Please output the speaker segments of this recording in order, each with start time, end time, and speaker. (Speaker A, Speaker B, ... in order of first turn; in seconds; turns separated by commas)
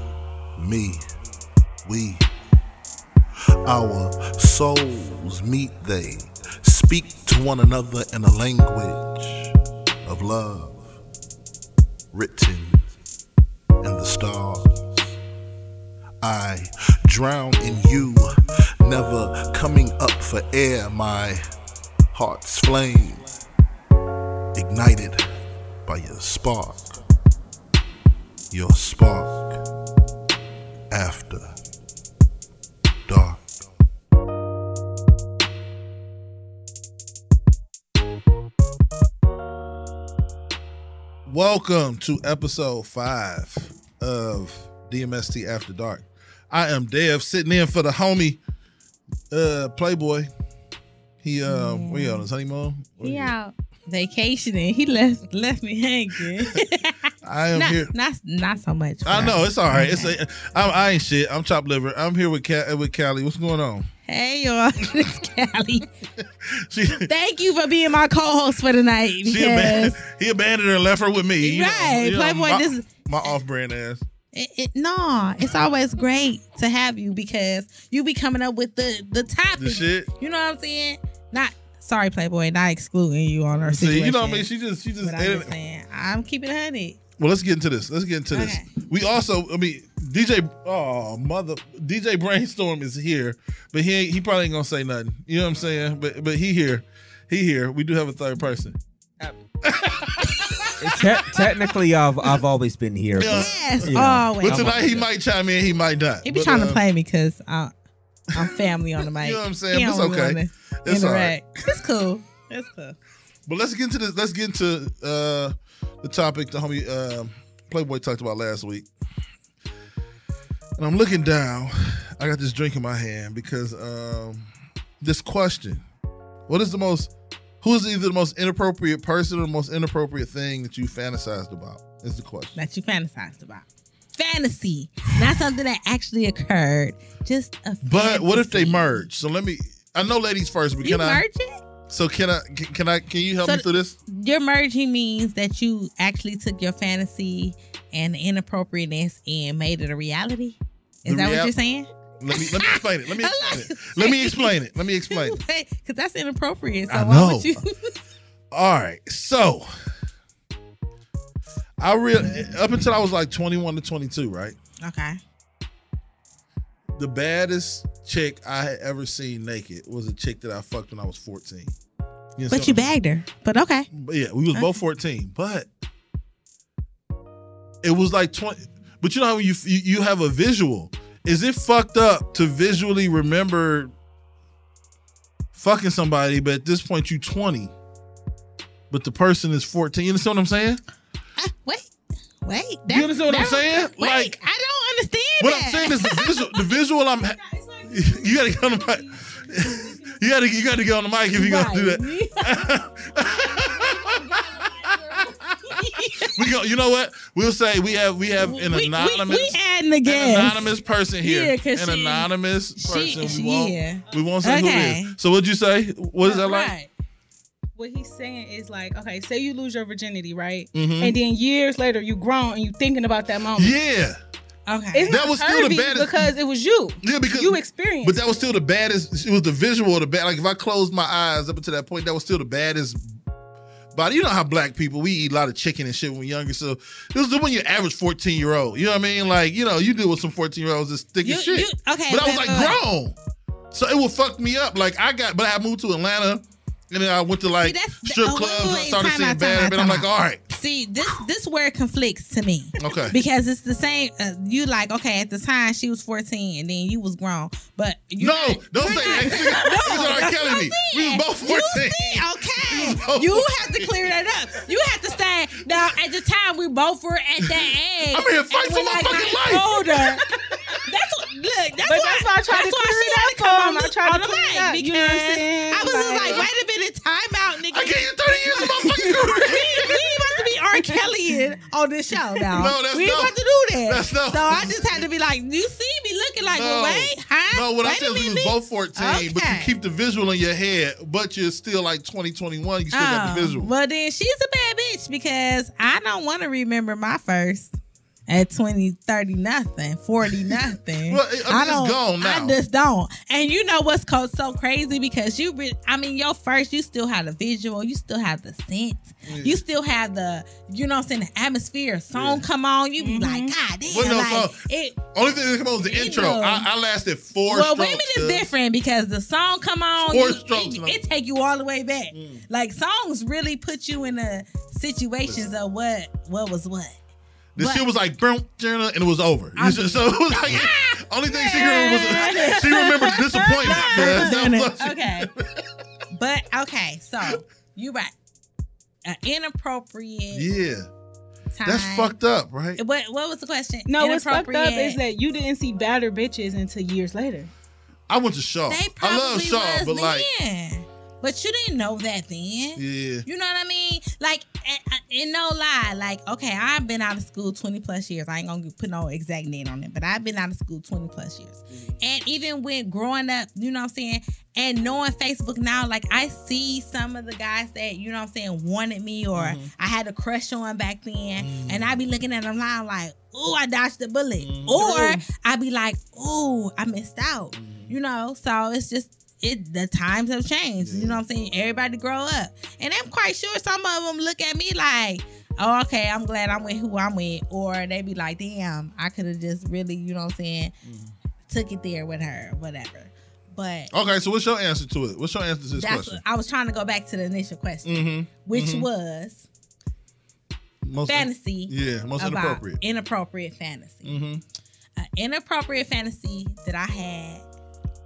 Speaker A: 0.6-1.0, Speaker A: 1.8-2.2, Speaker A: 3.6-10.9, Speaker A: 12.1-12.9, Speaker A: 13.8-15.1, Speaker A: 16.2-18.3, Speaker A: 18.8-21.4, Speaker A: 22.1-23.2, Speaker A: 24.5-25.2, Speaker A: 25.9-26.9, Speaker A: 28.5-29.6, Speaker A: 30.9-31.5, Speaker A: 33.1-33.4, Speaker A: 41.2-48.4, Speaker A: 49.3-50.3, Speaker A: 51.2-53.3, Speaker B: 51.5-52.2, Speaker B: 53.0-60.1, Speaker A: 57.2-57.9, Speaker A: 59.0-63.9, Speaker B: 64.1-65.9, Speaker A: 66.2-67.1, Speaker B: 67.1-70.0, Speaker A: 69.2-74.0, Speaker B: 71.4-72.9, Speaker B: 74.3-84.5, Speaker A: 79.6-80.1, Speaker A: 83.5-85.5, Speaker B: 85.0-87.0, Speaker A: 87.2-98.8, Speaker B: 88.3-88.7, Speaker A: 99.6-101.7, Speaker B: 100.4-100.7, Speaker C: 100.8-105.1, Speaker A: 103.1-106.8, Speaker B: 103.3-104.8, Speaker B: 106.2-107.7, Speaker B: 108.3-113.0, Speaker A: 108.3-111.8, Speaker A: 113.5-118.9, Speaker A: 120.8-124.5, Speaker A: 125.0-125.8, Speaker A: 126.5-127.1, Speaker A: 127.6-132.6, Speaker B: 132.6-139.0, Speaker A: 137.8-141.2, Speaker B: 140.8-141.6, Speaker A: 141.9-143.9, Speaker B: 143.4-154.5, Speaker A: 151.0-151.5, Speaker A: 152.2-155.4, Speaker B: 155.1-157.9, Speaker A: 156.9-157.6, Speaker A: 158.5-159.9, Speaker A: 161.8-164.6, Speaker B: 164.8-165.2, Speaker A: 166.9-171.7, Speaker A: 172.3-172.9, Speaker B: 172.5-173.9, Speaker A: 173.9-175.7, Speaker A: 177.8-183.9, Speaker A: 185.5-187.7, Speaker A: 188.9-190.8, Speaker B: 191.4-191.9, Speaker B: 192.4-196.6, Speaker A: 192.9-194.3, Speaker A: 195.4-216.7, Speaker D: 197.4-200.2, Speaker B: 201.3-202.7, Speaker B: 205.6-206.5, Speaker B: 208.4-210.7, Speaker B: 211.2-215.1, Speaker B: 216.2-216.9, Speaker D: 217.8-223.8, Speaker A: 220.7-221.1, Speaker A: 223.5-224.2, Speaker B: 224.7-225.2, Speaker D: 224.9-228.2, Speaker A: 225.1-226.3, Speaker A: 227.0-233.2, Speaker A: 233.9-243.2, Speaker B: 241.2-242.8, Speaker A: 243.7-250.4, Speaker B: 247.6-270.2, Speaker A: 252.8-253.2, Speaker A: 258.2-264.1, Speaker D: 259.0-259.6, Speaker A: 267.4-269.8, Speaker D: 270.5-270.8, Speaker B: 270.8-289.7, Speaker D: 271.8-276.4, Speaker A: 277.7-280.1, Speaker D: 279.8-281.0, Speaker A: 282.5-285.0, Speaker A: 286.5-293.7, Speaker B: 292.9-297.7, Speaker B: 298.3-315.0, Speaker A: 300.2-302.6, Speaker A: 309.2-309.6, Speaker A: 312.1-312.4, Speaker D: 313.0-313.5, Speaker A: 313.9-318.5, Speaker B: 315.8-316.7, Speaker B: 317.5-326.9, Speaker A: 320.0-321.0, Speaker A: 322.1-322.4, Speaker A: 327.6-335.7, Speaker B: 327.6-327.8, Speaker B: 329.6-335.3, Speaker D: 331.6-334.3, Speaker B: 336.1-338.1, Speaker B: 339.0-340.5, Speaker A: 340.3-340.9, Speaker B: 341.5-342.1, Speaker A: 341.6-342.8, Speaker B: 342.8-345.0, Speaker D: 343.9-347.5, Speaker A: 348.1-350.3, Speaker B: 348.7-390.7, Speaker A: 352.8-353.2, Speaker A: 369.3-369.7, Speaker A: 371.4-372.0, Speaker A: 374.4-374.9, Speaker D: 374.8-375.2, Speaker A: 377.5-377.9, Speaker A: 380.8-381.2, Speaker A: 390.9-391.1, Speaker B: 391.5-393.9, Speaker A: 393.9-396.2, Speaker B: 395.7-399.4, Speaker A: 397.8-398.9, Speaker A: 400.8-402.8, Speaker B: 401.1-404.2, Speaker A: 404.0-404.4, Speaker B: 405.0-407.4